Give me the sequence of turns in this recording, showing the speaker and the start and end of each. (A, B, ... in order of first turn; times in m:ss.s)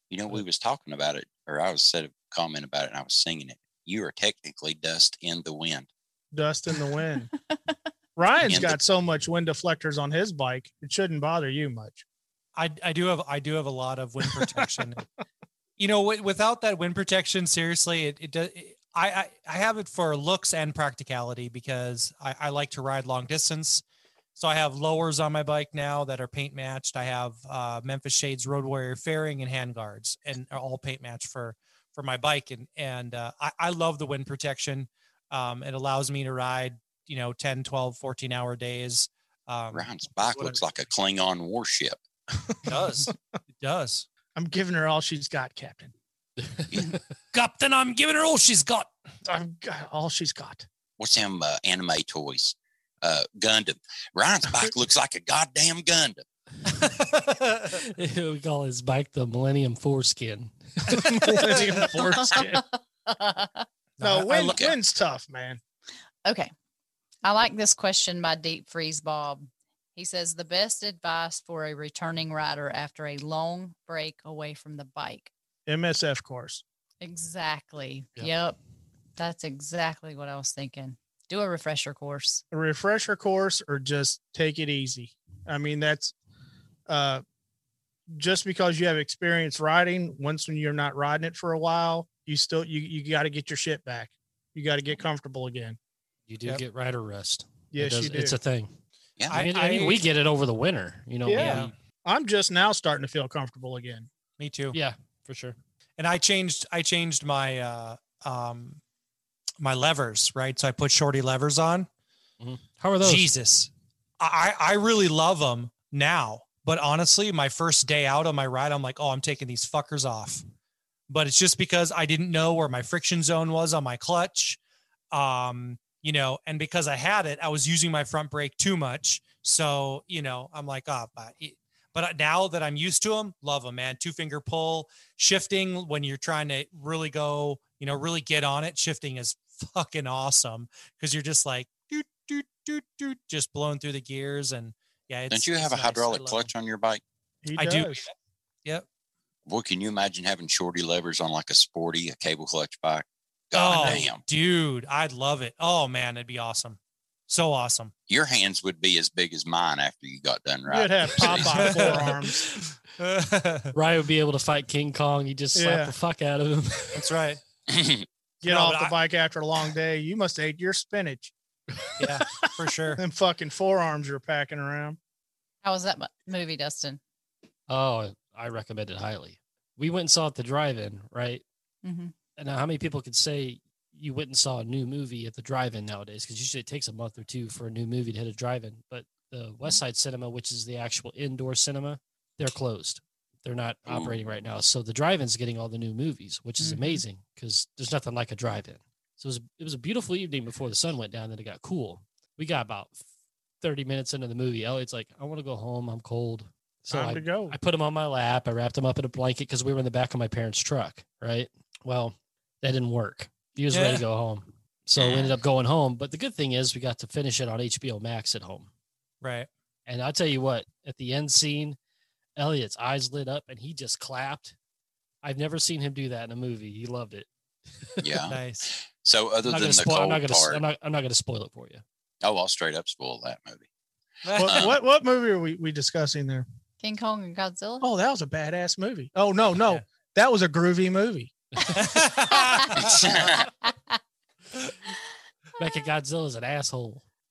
0:00.1-0:05.9 A
0:06.3-0:07.3 B
0:07.5-0:07.8 C
0:08.2-0:12.0 B
0:08.5-0:08.8 A
0:12.6-0:15.0 D
0:15.8-0:23.8 D
0:24.4-0:40.6 D
0:39.7-0:42.0 A
0:42.4-0:43.1 B
0:42.7-0:44.1 D
0:44.4-0:45.9 B
0:47.3-0:48.9 D
0:49.3-0:50.7 B
0:51.0-0:56.2 A
0:56.7-0:57.8 D
0:57.7-1:01.2 E
1:00.9-1:02.6 B
1:01.0-1:01.9 D
1:02.1-1:03.7 C
1:04.0-1:04.6 D
1:04.0-1:05.6 B
1:04.5-1:04.8 A
1:06.2-1:06.5 C
1:07.2-1:15.3 C
1:15.7-1:16.6 B
1:17.0-1:18.6 C
1:19.2-1:22.4 C
1:22.5-1:26.1 B
1:26.9-1:27.2 B
1:28.1-1:35.8 B
1:36.3-1:38.7 E
1:37.7-1:38.4 B
1:39.2-1:39.5 A
1:39.3-1:40.0 D
1:39.3-1:41.7 E
1:41.2-1:44.1 B
1:41.4-1:41.7 D
1:44.4-1:44.8 D
1:44.7-1:45.6 E
1:46.0-1:48.8 D
1:49.6-1:51.9 D
1:52.4-1:53.3 E
1:53.0-2:00.4 D
2:01.1-2:04.6 D
2:05.1-2:26.5 D
2:25.3-2:27.0 A
2:27.4-2:28.0 B
2:27.6-2:28.1 D
2:29.5-2:34.2 A
2:33.5-2:37.9 D
2:33.7-2:34.1 B
2:38.1-2:42.0 A
2:40.7-2:42.5 B
2:41.2-2:43.7 D
2:43.7-2:47.1 E
2:45.6-2:45.9 B
2:46.9-2:47.4 D
2:47.7-2:48.1 A
2:48.4-2:51.3 B
2:48.4-2:49.0 D
2:52.0-2:53.0 D
2:53.0-2:55.0 B
2:55.6-2:57.0 C
2:57.7-3:01.4 E
3:01.8-3:02.1 C
3:02.4-3:23.0 E
3:13.9-3:14.2 A
3:16.6-3:17.0 C
3:23.6-3:38.7 E
3:26.9-3:27.6 B
3:33.7-3:34.0 D
3:35.0-3:35.4 A
3:39.2-3:39.5 D
3:39.9-3:41.8 E
3:42.4-3:44.6 E
3:45.2-3:47.3 E
3:47.8-3:48.2 E
3:48.0-3:50.6 A
3:48.3-3:48.7 D
3:49.5-3:51.8 E
3:52.2-3:53.7 A
3:54.2-3:54.7 D
3:54.4-3:56.5 B
3:54.4-3:54.8 A
3:56.8-3:57.9 C
3:57.8-4:01.3 B
4:01.7-4:03.2 D
4:02.3-4:02.8 C
4:02.8-4:03.5 A
4:03.4-4:04.0 C
4:05.6-4:07.0 E